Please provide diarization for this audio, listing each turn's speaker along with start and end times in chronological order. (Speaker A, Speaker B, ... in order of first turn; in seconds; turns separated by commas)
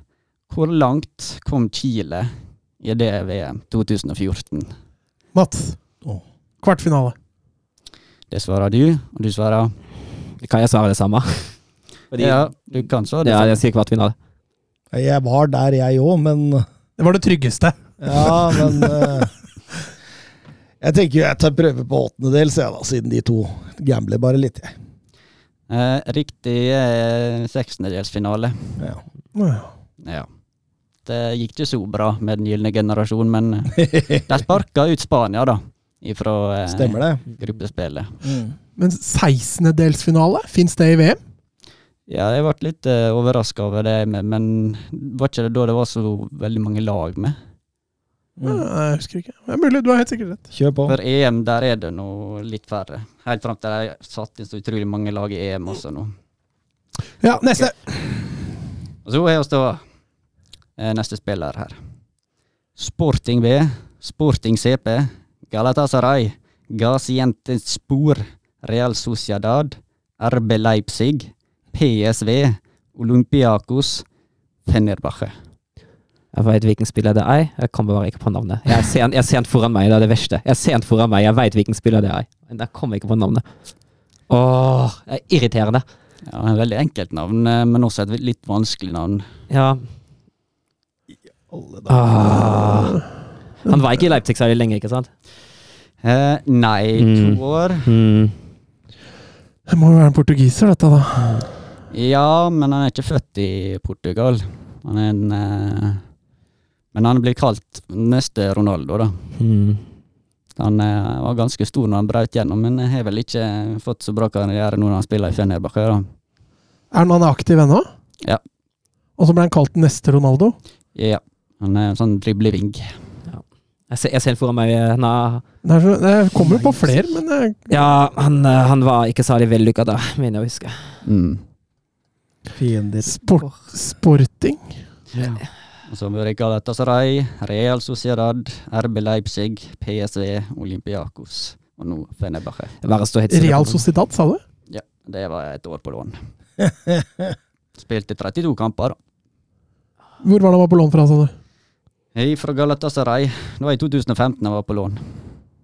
Speaker A: 0.5-4.7, Speaker B: 5.3-5.8, Speaker B: 6.6-7.1, Speaker A: 8.3-9.8, Speaker C: 10.4-11.5, Speaker C: 12.1-12.4, Speaker A: 12.2-13.6, Speaker C: 13.2-14.1, Speaker D: 14.9-16.7, Speaker B: 17.0-19.2, Speaker D: 18.0-19.3, Speaker D: 20.8-24.7, Speaker A: 25.7-28.8, Speaker B: 29.4-29.7, Speaker A: 31.1-38.2, Speaker D: 36.7-37.2, Speaker D: 38.2-38.5, Speaker B: 38.8-41.2, Speaker A: 42.1-47.4, Speaker D: 48.4-48.7, Speaker B: 48.5-50.5, Speaker D: 50.5-51.0, Speaker A: 50.9-56.1, Speaker B: 57.2-58.1, Speaker A: 59.0-59.8, Speaker A: 60.8-61.8, Speaker A: 62.8-74.0, Speaker A: 74.7-75.3, Speaker C: 76.3-83.4, Speaker C: 84.3-85.8, Speaker A: 86.3-89.3, Speaker C: 89.5-89.8, Speaker D: 91.5-92.8, Speaker C: 91.9-93.0, Speaker C: 93.6-95.1, Speaker A: 96.0-97.9, Speaker C: 97.0-98.3, Speaker B: 99.7-101.5, Speaker A: 101.9-106.0, Speaker A: 106.9-109.2, Speaker C: 109.4-109.8, Speaker A: 110.6-116.1, Speaker B: 116.9-117.9, Speaker B: 119.2-120.6, Speaker A: 121.0-122.9, Speaker C: 123.3-125.4, Speaker B: 125.6-127.7, Speaker D: 126.4-127.0, Speaker C: 127.7-130.9, Speaker A: 131.1-131.4, Speaker D: 132.6-133.5, Speaker B: 133.1-134.8, Speaker A: 135.1-142.7, Speaker C: 142.8-143.9, Speaker B: 143.3-144.4, Speaker A: 144.7-146.2, Speaker D: 146.9-147.2, Speaker A: 147.8-149.0, Speaker B: 150.2-151.3, Speaker A: 152.1-155.0